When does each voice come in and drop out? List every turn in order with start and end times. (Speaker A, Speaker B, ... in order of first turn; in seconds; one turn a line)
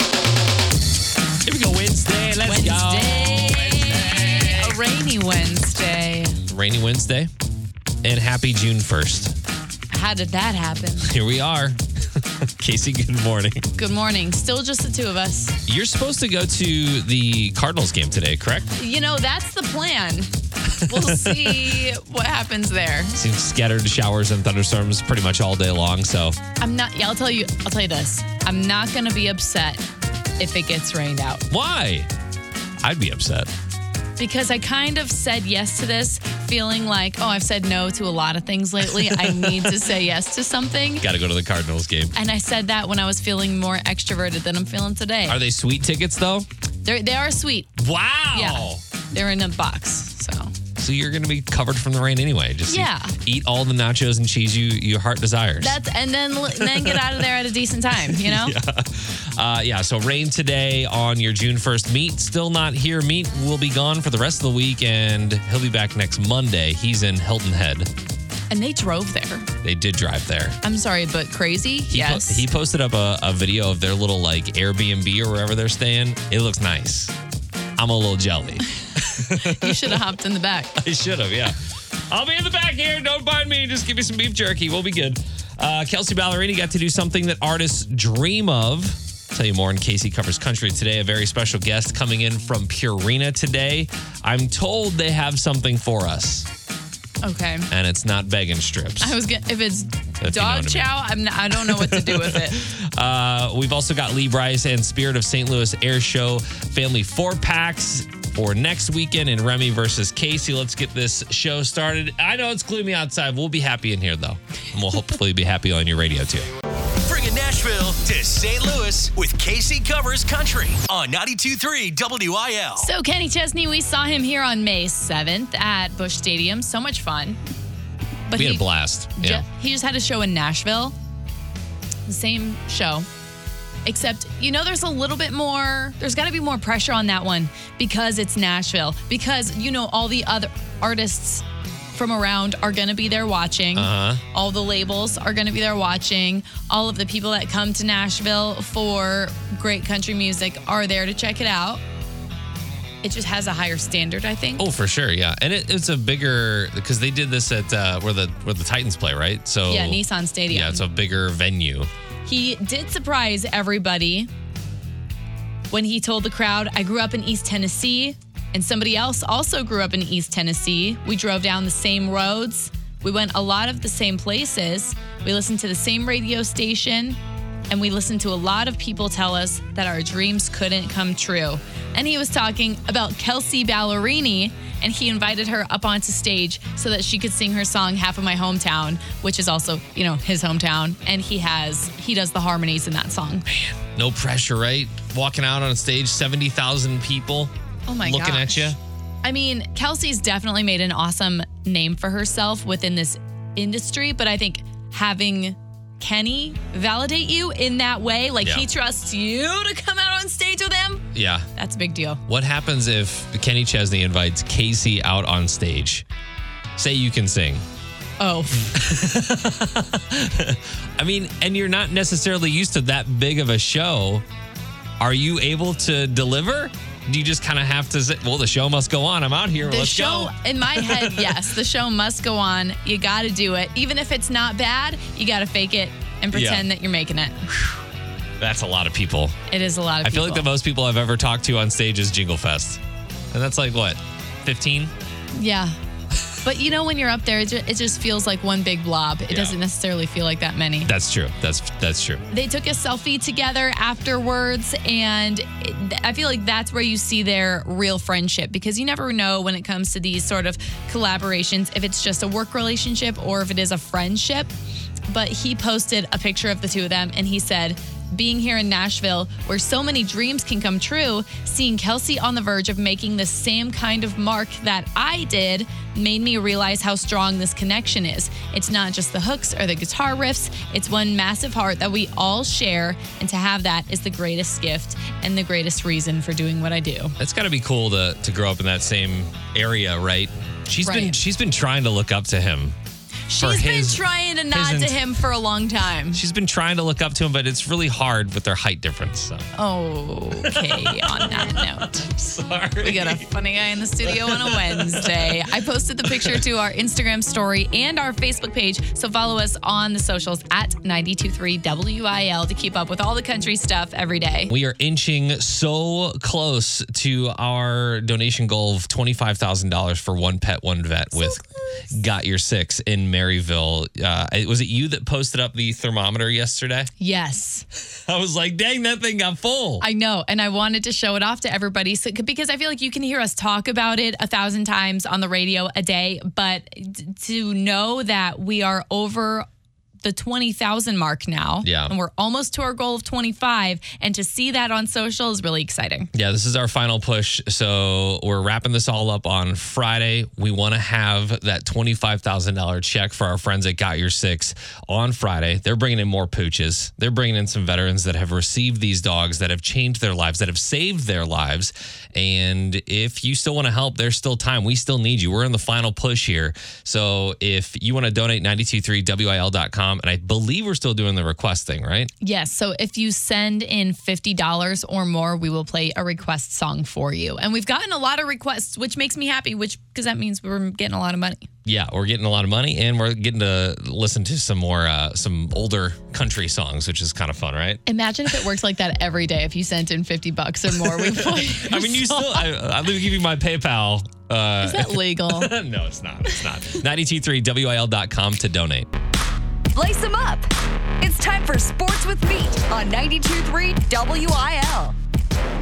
Speaker A: 1.4-4.8
Speaker B: 2.4-6.4
Speaker A: 6.5-7.3
Speaker A: 8.0-9.3
Speaker B: 9.9-11.1
Speaker A: 11.1-11.8
Speaker A: 12.6-13.7
Speaker B: 13.7-15.5
Speaker A: 15.7-18.7
Speaker B: 18.8-20.3
Speaker A: 20.8-21.8
Speaker B: 20.9-23.2
Speaker A: 23.2-26.4
Speaker B: 26.6-29.8
Speaker B: 30.4-31.4
Speaker A: 31.5-32.1
Speaker A: 32.8-33.5
Speaker B: 34.2-41.0
Speaker A: 39.0-39.7
Speaker A: 41.0-42.1
Speaker B: 42.1-45.4
Speaker A: 45.3-46.5
Speaker B: 46.8-47.7
Speaker A: 47.8-48.8
Speaker B: 48.3-50.5
Speaker A: 50.8-55.8
Speaker B: 52.7-53.1
Speaker B: 55.6-58.5
Speaker A: 56.6-57.2
Speaker A: 58.1-67.9
Speaker B: 68.5-69.5
Speaker A: 69.6-70.6
Speaker B: 70.6-72.4
Speaker A: 71.9-77.1
Speaker A: 77.8-80.0
Speaker B: 79.3-80.8
Speaker A: 80.8-81.5
Speaker A: 82.1-96.5
Speaker B: 97.2-97.7
Speaker A: 97.7-99.1
Speaker B: 99.0-102.6
Speaker A: 100.2-100.9
Speaker A: 101.5-116.5
Speaker C: 117.0-122.9
Speaker B: 122.8-127.4
Speaker B: 128.3-128.6
Speaker A: 128.3-129.4
Speaker B: 129.2-130.9
Speaker B: 132.1-133.1
Speaker B: 133.8-141.4
Speaker B: 141.9-151.8
Speaker A: 143.8-144.2
Speaker B: 153.0-154.6
Speaker A: 154.6-161.9
Speaker B: 159.7-160.8
Speaker B: 162.2-164.3
Speaker B: 165.7-177.2
Speaker B: 177.7-193.4
Speaker A: 193.5-198.8
Speaker B: 197.9-211.1
Speaker A: 211.1-211.5
Speaker B: 211.6-212.2
Speaker A: 212.3-216.0
Speaker A: 216.8-217.6
Speaker B: 218.2-218.8
Speaker A: 218.7-224.2
Speaker A: 225.0-231.3
Speaker B: 229.6-237.4
Speaker A: 236.3-236.6
Speaker A: 238.4-239.3
Speaker B: 239.5-240.5
Speaker A: 240.0-242.8
Speaker A: 243.3-244.9
Speaker B: 245.3-245.8
Speaker B: 246.4-250.9
Speaker A: 249.3-249.5
Speaker A: 250.8-252.2
Speaker B: 252.3-264.5
Speaker B: 265.1-287.1
Speaker A: 287.2-292.8
Speaker B: 290.8-291.2
Speaker B: 293.3-296.2
Speaker A: 293.4-295.0
Speaker A: 296.1-299.5
Speaker B: 299.6-302.3
Speaker A: 300.4-303.2
Speaker B: 302.8-314.5
Speaker A: 304.1-305.3
Speaker A: 306.1-306.4
Speaker A: 314.5-326.9
Speaker B: 321.1-321.7
Speaker B: 327.0-327.6
Speaker A: 327.9-329.8
Speaker B: 329.8-339.4
Speaker B: 340.0-346.1
Speaker A: 341.6-341.9
Speaker A: 346.1-372.1
Speaker B: 372.2-381.5
Speaker A: 381.6-387.8
Speaker B: 387.9-392.5
Speaker A: 390.8-398.9
Speaker B: 394.6-395.5
Speaker D: 399.7-400.5
Speaker D: 401.0-404.9